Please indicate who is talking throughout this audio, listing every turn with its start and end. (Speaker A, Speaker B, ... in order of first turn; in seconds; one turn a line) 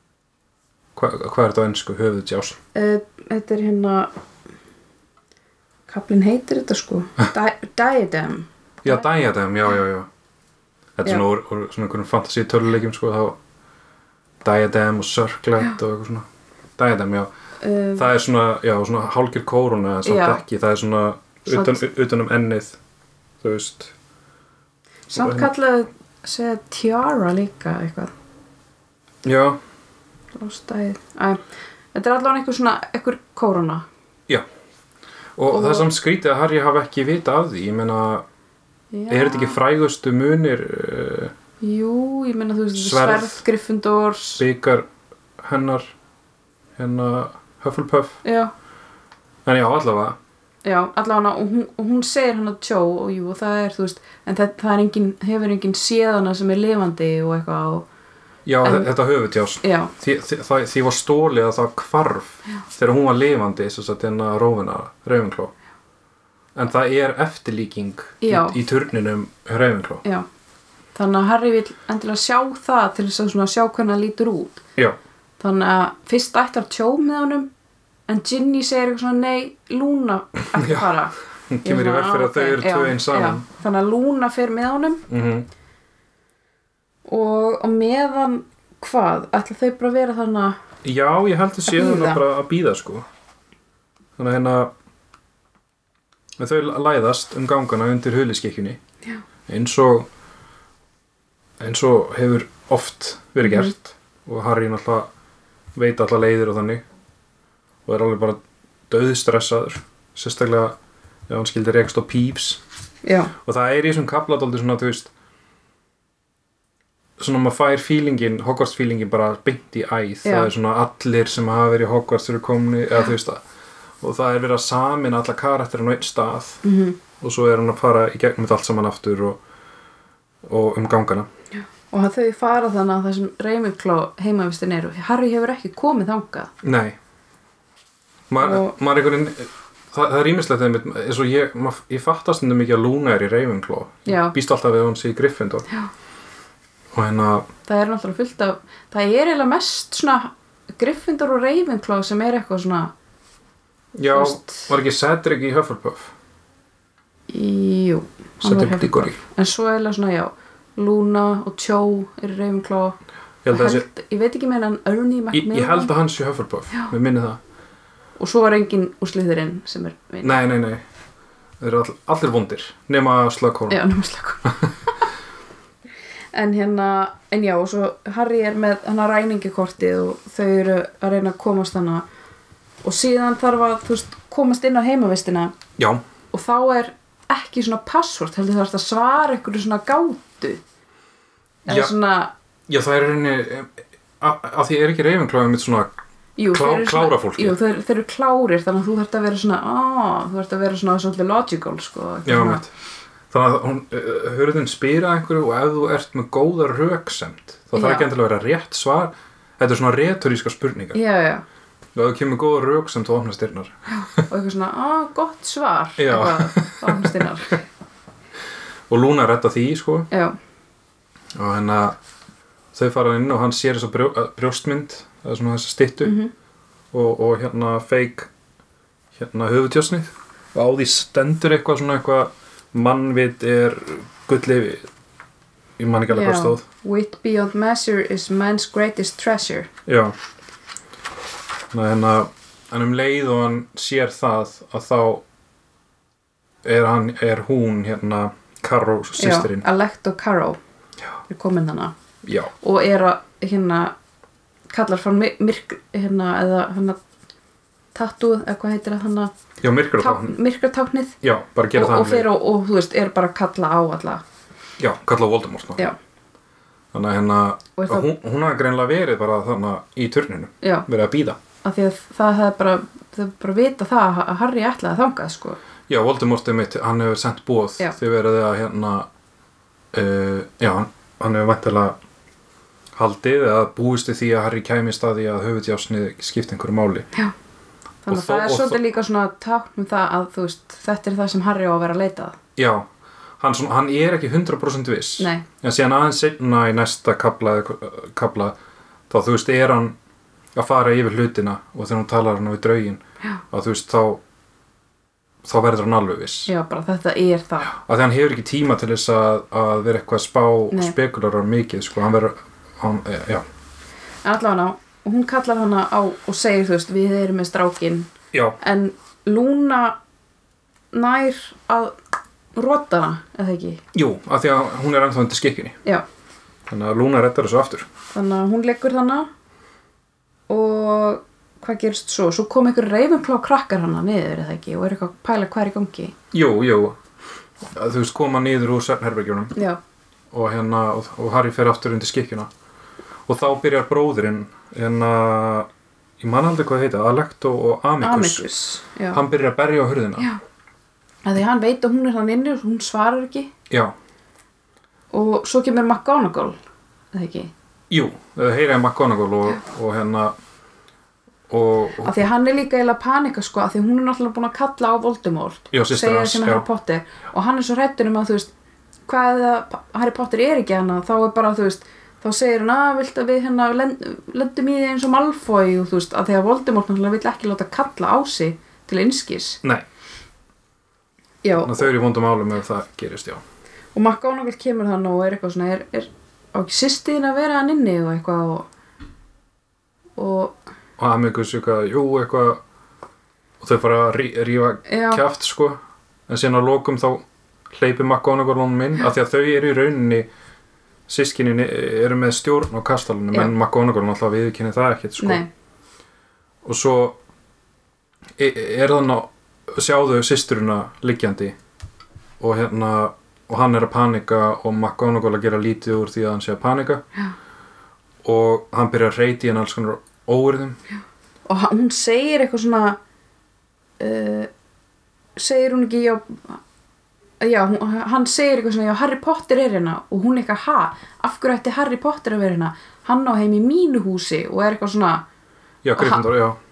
Speaker A: 1.0-2.6
Speaker B: 2.8-4.1
Speaker B: 5.9-9.0
Speaker A: 8.8-10.1
Speaker A: 11.0-13.4
Speaker A: 14.4-16.2
Speaker A: 16.8-17.3
Speaker B: 17.6-18.1
Speaker A: 18.0-22.8
Speaker B: 20.1-20.4
Speaker B: 21.5-21.8
Speaker A: 23.4-23.9
Speaker B: 25.1-28.1
Speaker A: 25.1-25.5
Speaker A: 29.2-29.6
Speaker B: 30.4-31.4
Speaker B: 31.9-33.9
Speaker A: 35.4-38.2
Speaker B: 35.5-35.9
Speaker B: 38.9-39.6
Speaker A: 39.1-41.3
Speaker B: 41.6-44.4
Speaker A: 42.8-43.4
Speaker A: 44.4-44.9
Speaker A: 45.4-45.9
Speaker A: 46.8-48.2
Speaker B: 48.2-48.5
Speaker A: 49.5-50.2
Speaker B: 50.6-57.9
Speaker A: 58.5-65.5
Speaker B: 58.6-58.9
Speaker B: 59.6-59.9
Speaker A: 66.5-70.0
Speaker B: 68.2-68.6
Speaker B: 71.0-74.6
Speaker B: 75.4-77.5
Speaker B: 78.1-81.1
Speaker A: 80.5-80.9
Speaker A: 81.5-83.4
Speaker B: 81.6-85.0
Speaker A: 85.1-85.5
Speaker B: 87.1-90.6
Speaker A: 90.8-93.0
Speaker B: 91.7-92.2
Speaker A: 94.2-94.7
Speaker A: 96.4-98.8
Speaker A: 99.5-100.1
Speaker A: 101.6-105.1
Speaker B: 103.4-103.7
Speaker A: 105.8-106.8
Speaker A: 107.9-110.8
Speaker A: 111.3-112.6
Speaker B: 113.0-113.3
Speaker A: 113.4-115.1
Speaker A: 117.2-123.4
Speaker B: 120.2-120.5
Speaker A: 124.0-126.6
Speaker B: 126.6-127.0
Speaker A: 127.2-129.4
Speaker A: 130.4-131.2
Speaker B: 131.9-136.5
Speaker A: 136.6-137.0
Speaker A: 138.3-145.7
Speaker B: 138.4-138.7
Speaker B: 144.1-144.3
Speaker A: 146.9-147.5
Speaker B: 147.7-152.9
Speaker A: 154.0-156.1
Speaker B: 154.1-154.7
Speaker B: 157.3-163.0
Speaker A: 158.4-159.2
Speaker A: 163.4-163.9
Speaker B: 163.5-165.9
Speaker A: 165.3-167.4
Speaker B: 168.2-170.4
Speaker A: 170.2-170.8
Speaker A: 171.6-173.8
Speaker B: 173.7-174.9
Speaker B: 176.3-182.0
Speaker B: 182.8-185.6
Speaker A: 185.8-186.0
Speaker B: 186.3-190.6
Speaker B: 191.7-192.3
Speaker A: 191.7-191.9
Speaker A: 192.7-195.9
Speaker B: 196.4-202.7
Speaker A: 196.5-197.6
Speaker A: 202.2-202.7
Speaker A: 203.3-211.0
Speaker B: 207.7-208.1
Speaker B: 210.9-211.4
Speaker A: 211.9-213.8
Speaker B: 213.9-217.6
Speaker A: 216.0-217.3
Speaker A: 218.9-220.1
Speaker B: 220.1-220.4
Speaker A: 221.3-222.0
Speaker A: 222.7-226.1
Speaker B: 226.0-226.3
Speaker A: 226.9-228.3
Speaker A: 229.2-234.9
Speaker A: 235.8-236.6
Speaker B: 236.1-239.7
Speaker A: 239.9-240.1
Speaker A: 241.7-245.2
Speaker A: 246.6-249.7
Speaker B: 249.2-250.6
Speaker B: 251.3-251.9
Speaker A: 252.2-252.5
Speaker B: 252.6-253.9
Speaker B: 254.7-257.0
Speaker B: 257.9-259.3
Speaker A: 259.6-260.4
Speaker B: 260.0-261.2
Speaker A: 261.2-262.3
Speaker B: 261.8-264.2
Speaker A: 264.8-265.9
Speaker A: 266.9-271.4
Speaker B: 267.8-268.1
Speaker B: 271.6-275.6
Speaker A: 275.9-279.1
Speaker A: 279.9-282.0
Speaker A: 282.9-287.1
Speaker B: 288.1-292.4
Speaker A: 288.1-288.8
Speaker A: 292.6-292.9
Speaker A: 293.4-298.5
Speaker B: 295.2-295.5
Speaker A: 299.1-300.0
Speaker A: 300.6-304.2
Speaker A: 305.4-306.5
Speaker B: 306.5-307.8
Speaker A: 307.7-313.4
Speaker B: 314.2-320.0
Speaker B: 320.9-322.0
Speaker B: 322.6-323.8
Speaker A: 323.9-325.8
Speaker A: 326.7-327.9
Speaker B: 328.1-329.3
Speaker B: 330.5-336.1
Speaker A: 336.3-337.0
Speaker A: 337.7-339.6
Speaker A: 340.3-342.5
Speaker A: 343.3-345.7
Speaker A: 346.2-348.4
Speaker B: 348.0-349.2
Speaker A: 349.1-350.3
Speaker B: 351.2-353.5
Speaker B: 355.1-356.6
Speaker B: 357.1-357.5
Speaker A: 357.9-360.3
Speaker A: 361.5-362.1
Speaker B: 362.0-368.5
Speaker A: 365.7-366.6
Speaker B: 369.1-379.6
Speaker B: 381.4-381.9
Speaker A: 381.6-383.4
Speaker B: 383.9-388.7
Speaker B: 390.2-390.6
Speaker A: 391.0-392.6
Speaker A: 393.6-400.3
Speaker B: 394.9-395.2
Speaker A: 401.1-405.4
Speaker B: 405.2-405.5
Speaker A: 406.6-407.2
Speaker A: 408.4-411.6
Speaker A: 412.4-417.0
Speaker A: 418.2-420.8
Speaker B: 421.5-423.0
Speaker B: 424.0-424.5
Speaker B: 425.4-426.6
Speaker B: 427.4-435.2
Speaker A: 435.8-436.6
Speaker B: 436.0-436.2